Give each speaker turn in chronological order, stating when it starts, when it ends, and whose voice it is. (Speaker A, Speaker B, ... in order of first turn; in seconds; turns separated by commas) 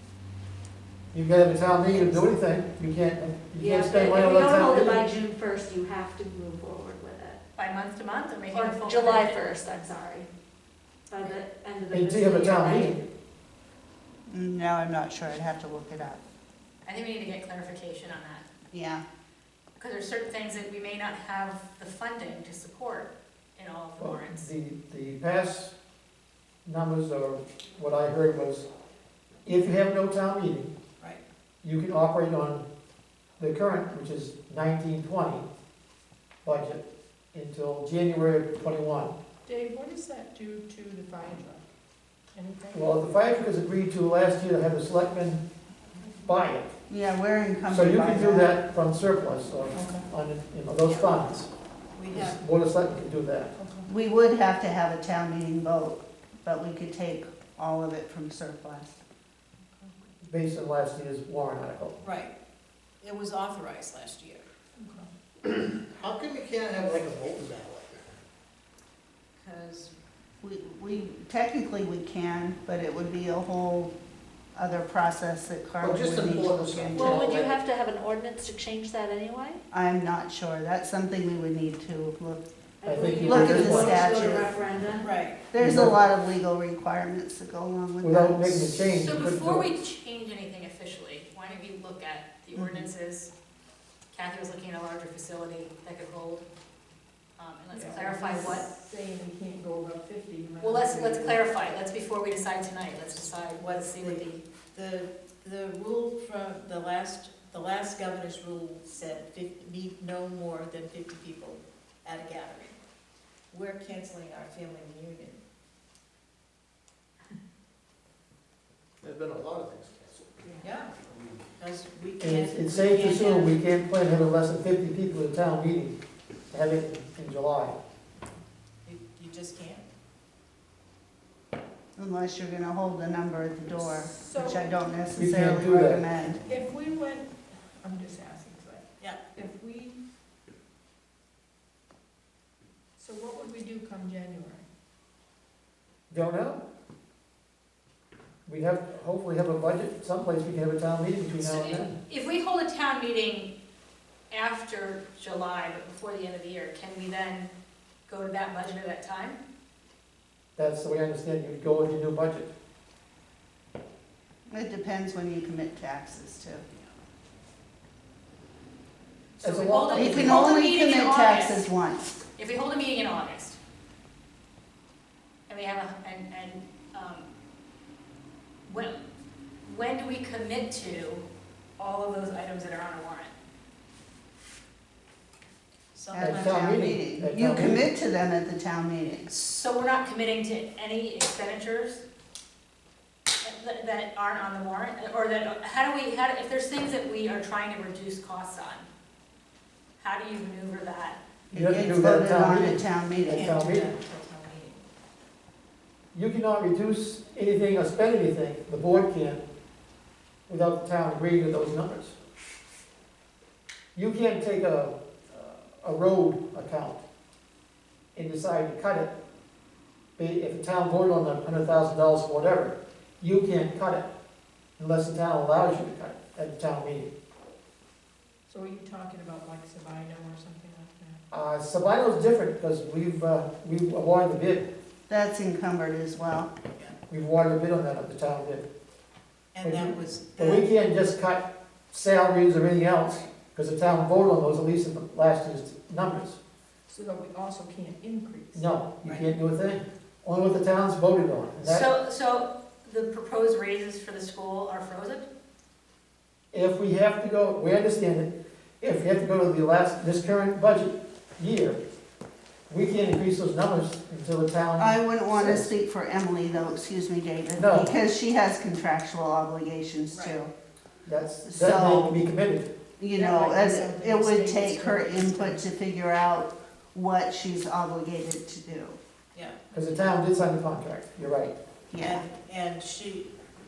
Speaker A: 1.1-5.1, Speaker B: 3.6-7.4, Speaker C: 7.6-9.5, Speaker B: 8.5-10.3, Speaker B: 11.1-13.0, Speaker A: 11.9-13.0, Speaker D: 14.3-16.2, Speaker C: 16.9-18.4, Speaker D: 18.7-19.0, Speaker C: 19.8-24.5, Speaker A: 24.0-25.7, Speaker A: 26.6-28.7, Speaker A: 29.4-30.7, Speaker A: 31.6-32.6, Speaker A: 33.4-35.5, Speaker A: 36.5-39.1, Speaker E: 39.5-41.7, Speaker E: 42.3-43.0, Speaker A: 42.7-45.4, Speaker A: 46.2-46.7, Speaker D: 46.9-48.6, Speaker A: 47.7-51.5, Speaker E: 49.7-50.1, Speaker F: 52.0-52.4, Speaker A: 52.1-53.5, Speaker E: 53.5-53.9, Speaker D: 53.9-59.0, Speaker A: 60.2-62.0, Speaker F: 62.0-62.3, Speaker F: 63.0-64.4, Speaker E: 64.8-65.1, Speaker G: 65.4-68.2, Speaker F: 69.4-69.9, Speaker D: 70.4-73.9, Speaker D: 74.5-77.4, Speaker G: 75.8-77.2, Speaker A: 76.8-77.5, Speaker B: 77.0-79.6, Speaker D: 79.7-82.5, Speaker B: 82.8-85.1, Speaker A: 82.8-84.1, Speaker D: 83.2-84.5, Speaker F: 85.0-85.4, Speaker D: 85.5-88.8, Speaker A: 85.6-86.0, Speaker A: 88.0-89.8, Speaker C: 88.9-93.3, Speaker D: 92.6-92.8, Speaker C: 94.1-96.5, Speaker C: 97.4-98.7, Speaker E: 97.7-101.5, Speaker C: 100.6-104.4, Speaker F: 103.9-112.8, Speaker F: 113.5-115.4, Speaker G: 119.0-120.3, Speaker E: 120.4-120.8, Speaker F: 120.6-121.0, Speaker G: 121.0-121.4, Speaker F: 121.6-123.6, Speaker A: 122.2-126.0, Speaker A: 126.5-127.8, Speaker F: 128.8-129.9, Speaker D: 132.0-136.4, Speaker E: 134.0-134.7, Speaker A: 135.2-136.0, Speaker E: 136.4-140.0, Speaker E: 143.0-144.7, Speaker A: 146.1-146.6, Speaker A: 148.5-151.9, Speaker C: 151.4-153.5, Speaker C: 154.3-157.5, Speaker C: 158.1-159.4, Speaker A: 160.6-162.5, Speaker D: 164.5-166.7, Speaker C: 169.4-171.6, Speaker A: 169.4-170.6, Speaker D: 169.9-172.2, Speaker C: 172.4-173.6, Speaker C: 175.5-177.3, Speaker C: 178.7-179.0, Speaker C: 179.6-181.3, Speaker C: 181.8-183.3, Speaker F: 185.9-186.7, Speaker D: 186.1-189.3, Speaker A: 186.2-187.8, Speaker C: 189.3-192.1, Speaker C: 193.4-198.9, Speaker C: 200.0-201.2, Speaker D: 201.5-203.6, Speaker A: 201.5-203.9, Speaker F: 203.2-204.8, Speaker A: 206.1-209.4, Speaker A: 210.5-212.2, Speaker A: 213.9-217.0, Speaker A: 218.2-219.1, Speaker A: 220.2-224.1, Speaker A: 224.8-227.1, Speaker E: 228.5-231.2, Speaker A: 231.3-234.7, Speaker D: 235.1-236.5, Speaker A: 237.1-238.7, Speaker F: 239.5-240.7, Speaker A: 239.6-246.4, Speaker E: 246.9-248.8, Speaker A: 248.5-251.9, Speaker F: 249.0-249.3, Speaker C: 251.6-255.3, Speaker A: 256.5-261.8, Speaker A: 262.7-265.7, Speaker D: 264.8-270.5, Speaker A: 267.6-267.9, Speaker F: 270.1-270.4, Speaker A: 271.1-272.7, Speaker D: 271.4-272.3, Speaker D: 273.0-279.0, Speaker F: 273.1-275.6, Speaker F: 279.3-279.6, Speaker A: 279.7-281.6, Speaker D: 281.9-282.2, Speaker F: 282.0-283.3